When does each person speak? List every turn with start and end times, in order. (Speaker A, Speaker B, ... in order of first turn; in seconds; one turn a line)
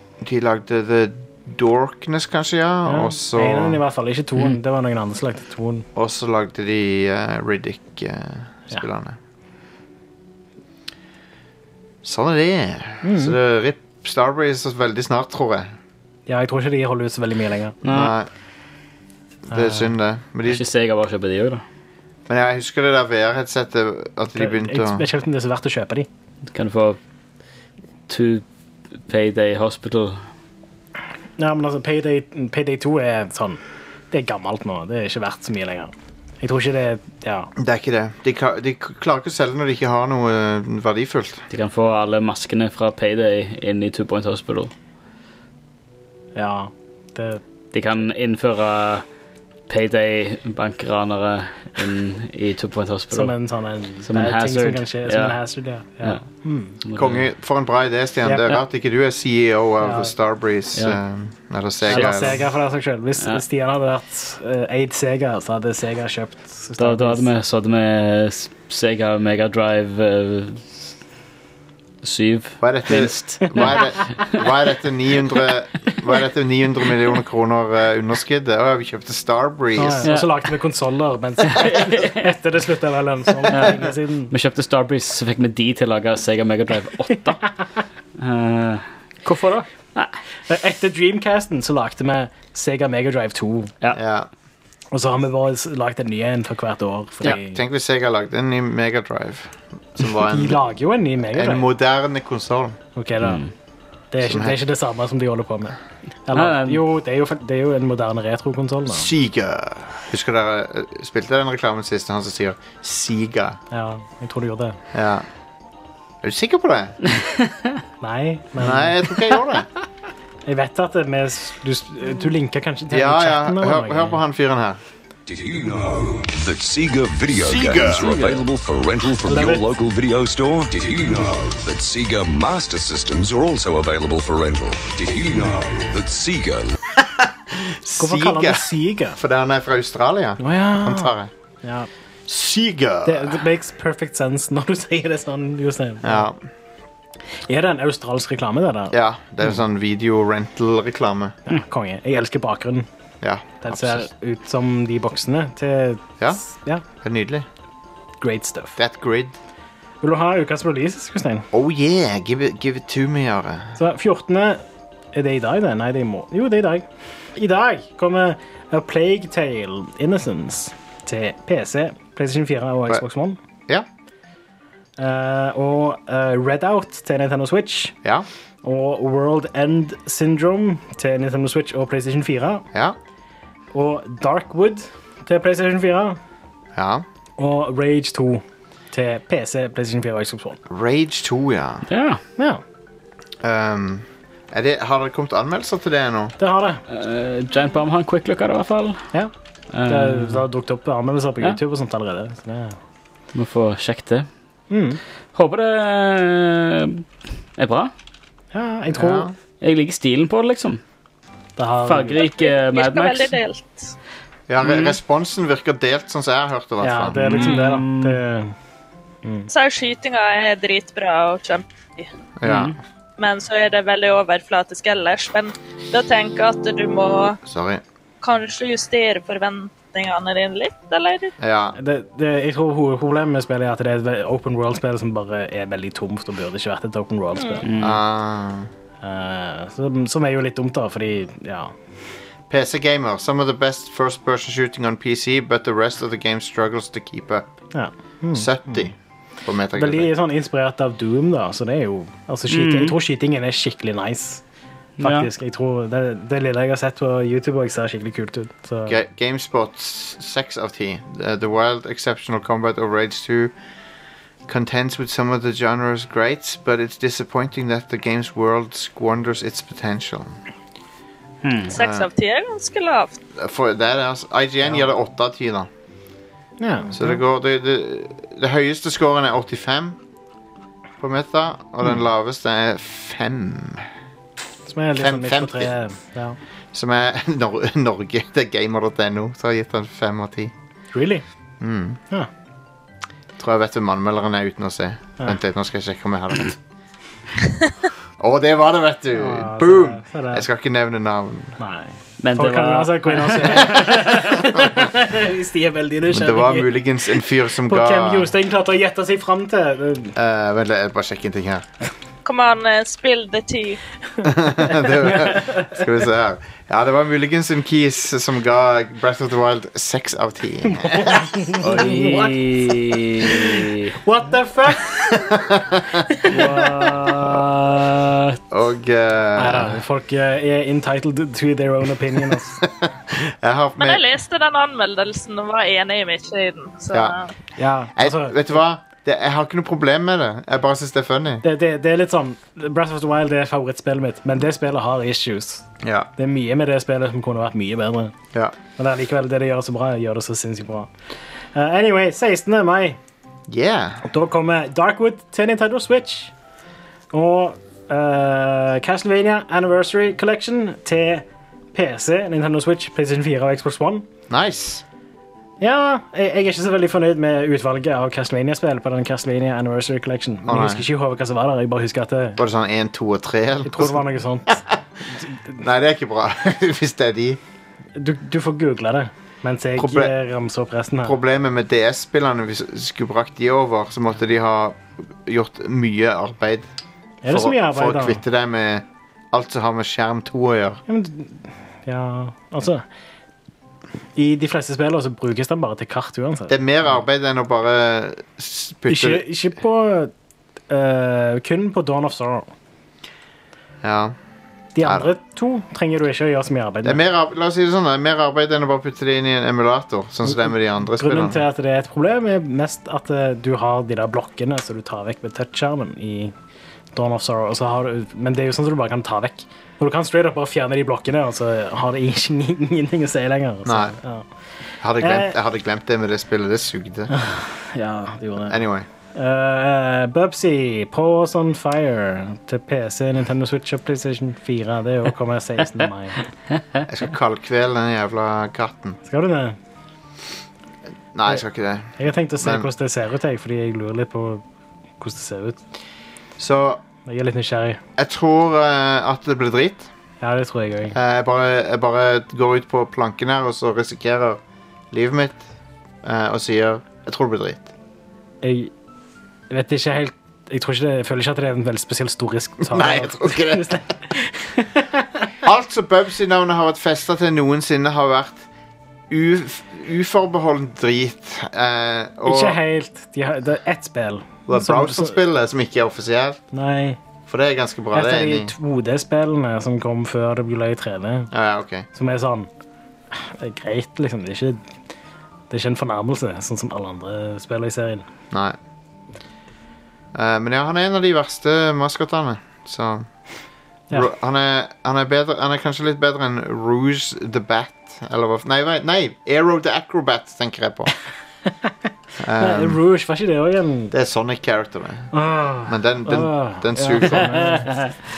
Speaker A: 0.2-3.8
Speaker B: 2.9-5.9
Speaker A: 6.0-9.2
Speaker A: 12.0-15.7
Speaker B: 13.0-13.4
Speaker B: 16.3-17.8
Speaker A: 17.8-18.3
Speaker C: 17.9-18.1
Speaker A: 19.5-20.6
Speaker B: 19.5-19.9
Speaker C: 20.5-21.6
Speaker A: 22.3-25.1
Speaker B: 24.4-26.1
Speaker C: 26.5-27.0
Speaker C: 28.1-28.4
Speaker C: 29.1-30.2
Speaker B: 31.4-37.5
Speaker A: 37.6-41.4
Speaker C: 41.5-44.7
Speaker B: 46.4-47.4
Speaker C: 47.7-49.0
Speaker C: 49.7-53.3
Speaker B: 53.1-56.8
Speaker C: 54.1-55.4
Speaker C: 56.8-57.2
Speaker A: 56.9-62.4
Speaker B: 58.2-58.5
Speaker B: 59.8-60.1
Speaker B: 61.9-67.3
Speaker C: 61.9-62.4
Speaker C: 66.8-70.9
Speaker C: 72.0-73.9
Speaker A: 72.6-80.1
Speaker B: 79.8-84.3
Speaker C: 80.0-80.3
Speaker C: 81.5-82.3
Speaker C: 83.5-87.5
Speaker C: 88.2-90.2
Speaker B: 90.5-93.7
Speaker A: 93.9-94.3
Speaker B: 94.9-97.6
Speaker A: 97.2-100.6
Speaker B: 100.2-101.7
Speaker A: 101.3-102.8
Speaker B: 103.0-103.4
Speaker C: 103.2-103.5
Speaker B: 104.1-109.1
Speaker A: 104.2-104.6
Speaker C: 106.3-106.8
Speaker A: 108.9-113.6
Speaker B: 113.7-114.8
Speaker A: 114.9-115.3
Speaker A: 116.2-117.0
Speaker B: 118.0-119.0
Speaker A: 118.6-119.7
Speaker B: 120.5-124.2
Speaker A: 122.9-124.8
Speaker D: 125.3-136.8
Speaker A: 127.5-128.1
Speaker B: 129.2-129.7
Speaker A: 137.5-141.3
Speaker B: 138.0-139.2
Speaker B: 140.4-141.9
Speaker A: 142.3-143.4
Speaker B: 143.1-146.3
Speaker A: 146.0-146.4
Speaker B: 147.4-149.0
Speaker A: 148.9-151.4
Speaker B: 151.5-152.9
Speaker A: 153.2-154.1
Speaker B: 153.6-156.8
Speaker A: 157.0-157.5
Speaker B: 158.2-158.8
Speaker A: 158.8-159.3
Speaker B: 160.0-161.5
Speaker A: 161.5-163.8
Speaker B: 163.8-173.4
Speaker B: 175.0-177.9
Speaker B: 178.6-182.7
Speaker B: 183.7-186.2
Speaker A: 186.8-187.1
Speaker B: 187.4-190.6
Speaker A: 190.7-191.9
Speaker C: 191.9-192.2
Speaker A: 193.4-196.3
Speaker B: 196.4-196.8
Speaker C: 196.9-199.0
Speaker C: 199.7-200.4
Speaker B: 199.8-202.8
Speaker C: 203.3-204.3
Speaker B: 204.7-205.0
Speaker C: 205.3-207.0
Speaker C: 207.6-207.9
Speaker B: 208.5-209.3
Speaker A: 208.9-209.3
Speaker C: 209.6-210.8
Speaker B: 211.6-212.2
Speaker C: 211.8-213.4
Speaker E: 212.2-213.9
Speaker A: 214.5-217.6
Speaker C: 214.6-215.0
Speaker B: 216.8-218.6
Speaker C: 217.2-218.2
Speaker E: 219.5-222.1
Speaker A: 222.4-222.8
Speaker C: 222.4-222.8
Speaker E: 223.2-227.4
Speaker A: 227.4-227.8
Speaker E: 228.2-231.3
Speaker A: 231.4-231.8
Speaker B: 231.8-237.7
Speaker E: 237.4-237.6
Speaker C: 237.6-238.0
Speaker A: 237.8-238.7
Speaker B: 239.0-241.8
Speaker A: 242.5-247.5
Speaker B: 247.7-248.8
Speaker A: 248.3-250.1
Speaker B: 249.8-254.4
Speaker C: 252.5-253.0
Speaker C: 255.0-255.3
Speaker B: 255.0-259.0
Speaker A: 258.9-263.5
Speaker A: 264.5-270.4
Speaker C: 271.4-271.7
Speaker A: 271.7-272.1
Speaker E: 271.7-273.2
Speaker A: 273.4-275.7
Speaker B: 276.6-277.2
Speaker A: 276.9-280.0
Speaker A: 281.0-283.9
Speaker B: 284.7-286.4
Speaker A: 285.0-285.7
Speaker A: 286.7-290.5
Speaker B: 290.9-291.2
Speaker A: 291.6-292.0
Speaker A: 293.4-296.6
Speaker A: 298.2-301.6
Speaker B: 299.1-300.5
Speaker B: 301.6-306.7
Speaker C: 302.2-304.3
Speaker A: 306.1-308.3
Speaker B: 307.7-310.2
Speaker A: 310.2-311.7
Speaker E: 312.2-313.8
Speaker A: 314.2-321.9
Speaker B: 320.7-322.3
Speaker C: 321.6-323.9
Speaker B: 324.0-325.0
Speaker A: 324.9-326.1
Speaker B: 326.2-327.2
Speaker C: 326.3-328.1
Speaker A: 328.5-329.8
Speaker B: 329.4-332.6
Speaker A: 332.6-334.0
Speaker E: 333.8-337.3
Speaker A: 336.9-337.2
Speaker B: 337.6-338.6
Speaker A: 338.0-341.4
Speaker B: 341.4-345.6
Speaker A: 345.8-346.1
Speaker B: 346.2-348.1
Speaker B: 348.8-350.9
Speaker B: 351.6-353.0
Speaker A: 353.5-354.0
Speaker B: 354.1-356.3
Speaker B: 357.1-364.1
Speaker A: 364.3-364.8
Speaker B: 365.6-372.4
Speaker A: 370.4-370.8
Speaker A: 372.4-374.8
Speaker B: 373.6-374.6
Speaker A: 375.6-377.4
Speaker B: 378.0-381.2
Speaker A: 379.8-380.1
Speaker A: 381.0-386.7
Speaker B: 387.2-388.2
Speaker A: 387.3-390.8
Speaker B: 390.9-392.8
Speaker B: 394.2-396.6
Speaker A: 396.5-399.2
Speaker B: 398.9-400.1
Speaker B: 400.7-402.5
Speaker A: 403.8-404.2
Speaker B: 404.8-407.0
Speaker A: 404.8-405.1
Speaker A: 406.8-411.4
Speaker B: 410.3-416.3
Speaker B: 416.9-424.3
Speaker A: 423.6-424.0
Speaker A: 424.8-427.1
Speaker B: 425.0-425.3
Speaker B: 427.1-428.6
Speaker A: 428.5-428.9
Speaker B: 429.1-436.2
Speaker A: 436.9-439.0
Speaker B: 439.1-439.6
Speaker A: 441.1-442.7
Speaker B: 442.0-444.4
Speaker B: 445.0-445.6
Speaker A: 446.4-446.8
Speaker B: 447.1-447.8
Speaker A: 448.0-449.9
Speaker B: 450.2-451.0
Speaker A: 450.9-455.4
Speaker A: 456.0-457.7
Speaker B: 458.4-458.7
Speaker B: 459.5-465.3
Speaker A: 462.6-463.8
Speaker A: 465.4-468.5
Speaker A: 469.1-472.6
Speaker B: 472.3-475.2
Speaker A: 474.5-476.4
Speaker B: 476.5-477.0
Speaker A: 477.3-478.5
Speaker B: 477.9-481.3
Speaker A: 481.3-481.9
Speaker B: 481.9-482.5
Speaker B: 483.1-484.6
Speaker B: 485.5-488.1
Speaker A: 488.3-488.6
Speaker A: 490.1-493.1
Speaker A: 493.9-500.9
Speaker A: 502.2-502.8
Speaker B: 502.4-503.9
Speaker A: 503.9-505.1
Speaker B: 505.1-507.9
Speaker A: 505.7-507.6